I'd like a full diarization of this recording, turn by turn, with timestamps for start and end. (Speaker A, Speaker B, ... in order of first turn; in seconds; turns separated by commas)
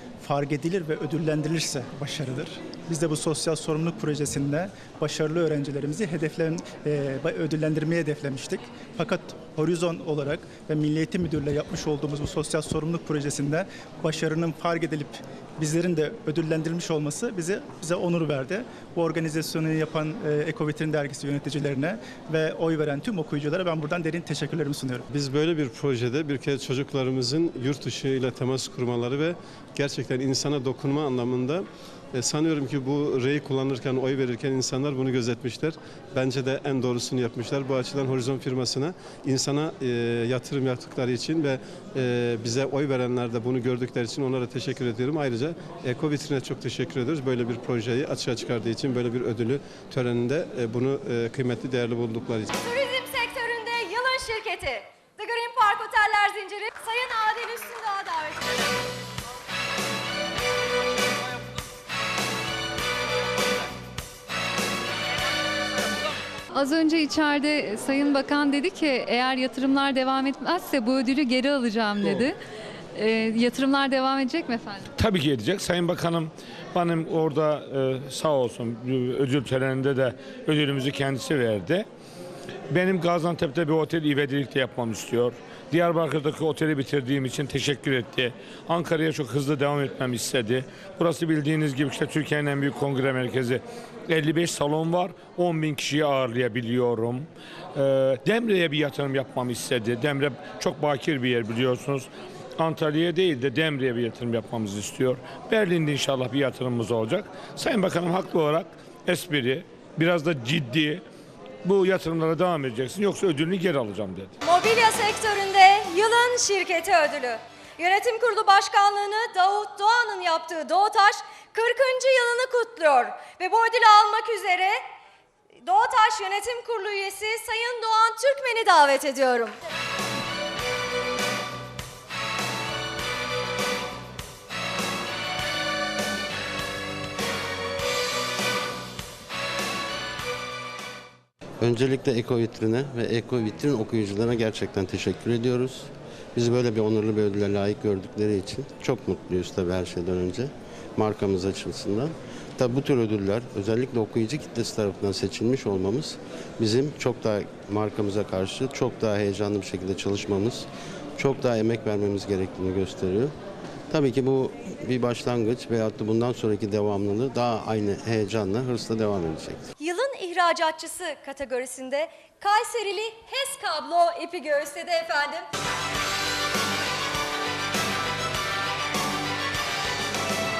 Speaker A: 0.2-25.1, Speaker B: 25.1-52.5, Speaker C: 52.5-58.5, Speaker D: 66.5-72.4, Speaker D: 73.0-74.9, Speaker E: 75.0-81.9, Speaker E: 82.7-111.0, Speaker E: 111.6-114.3, Speaker C: 114.4-124.8, Speaker C: 125.6-129.6, Speaker F: 141.6-160.7, Speaker F: 161.2-163.3, Speaker F: 163.9-169.7, Speaker C: 169.8-175.5